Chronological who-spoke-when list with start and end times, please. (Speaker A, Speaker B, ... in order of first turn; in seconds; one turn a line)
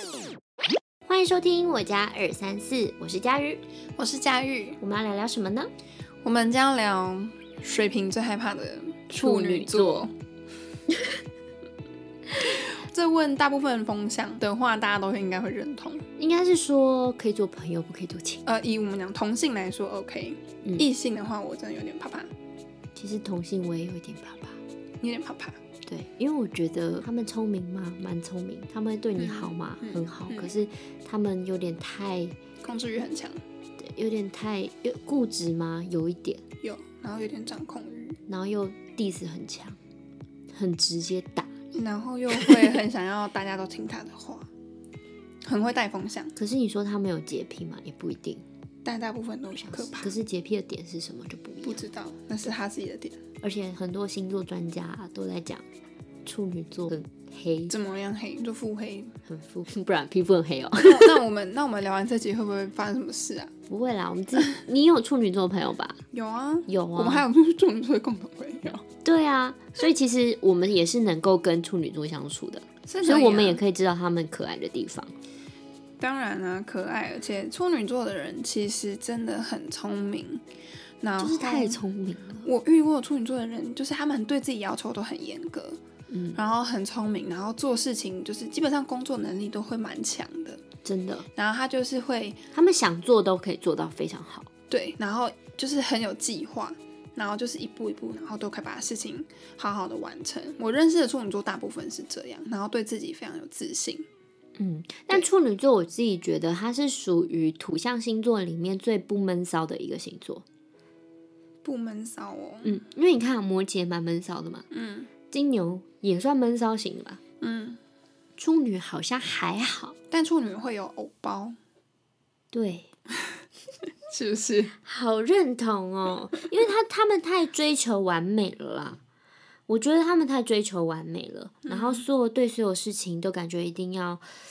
Speaker A: 1.1-3.6
Speaker B: 4.0-4.8
Speaker A: 4.8-5.7
Speaker B: 6.2-10.1
Speaker A: 9.1-10.1
Speaker B: 12.6-16.0
Speaker A: 16.2-18.4
Speaker B: 18.4-22.3
Speaker A: 23.0-24.6
Speaker B: 25.0-25.6
Speaker A: 25.9-32.4
Speaker B: 29.2-30.5
Speaker B: 32.6-33.4
Speaker A: 33.8-36.4
Speaker B: 36.6-38.2
Speaker A: 38.3-39.8
Speaker A: 40.5-41.5
Speaker B: 41.7-44.5
Speaker B: 45.5-46.4
Speaker A: 46.4-48.4
Speaker B: 48.9-50.1
Speaker A: 49.7-51.8
Speaker B: 51.6-53.2
Speaker A: 53.4-55.6
Speaker A: 56.2-57.7
Speaker B: 57.7-59.2
Speaker A: 59.3-61.2
Speaker B: 60.8-63.5
Speaker A: 63.7-66.0
Speaker B: 66.1-68.8
Speaker A: 66.7-67.3
Speaker A: 69.0-75.1
Speaker B: 72.9-73.6
Speaker B: 76.0-80.4
Speaker B: 81.0-81.8
Speaker A: 81.2-82.5
Speaker B: 82.4-85.8
Speaker A: 86.1-86.4
Speaker B: 86.3-90.6
Speaker A: 90.8-91.3
Speaker B: 91.3-92.4
Speaker A: 92.5-94.5
Speaker B: 94.7-104.1
Speaker A: 104.6-110.5
Speaker B: 111.6-112.8
Speaker A: 112.6-114.7
Speaker B: 114.7-115.1
Speaker A: 115.3-117.2
Speaker B: 117.4-117.8
Speaker A: 118.4-120.0
Speaker B: 120.1-121.6
Speaker A: 122.5-122.9
Speaker B: 124.1-124.7
Speaker A: 124.8-129.0
Speaker A: 129.7-134.2
Speaker B: 131.7-132.1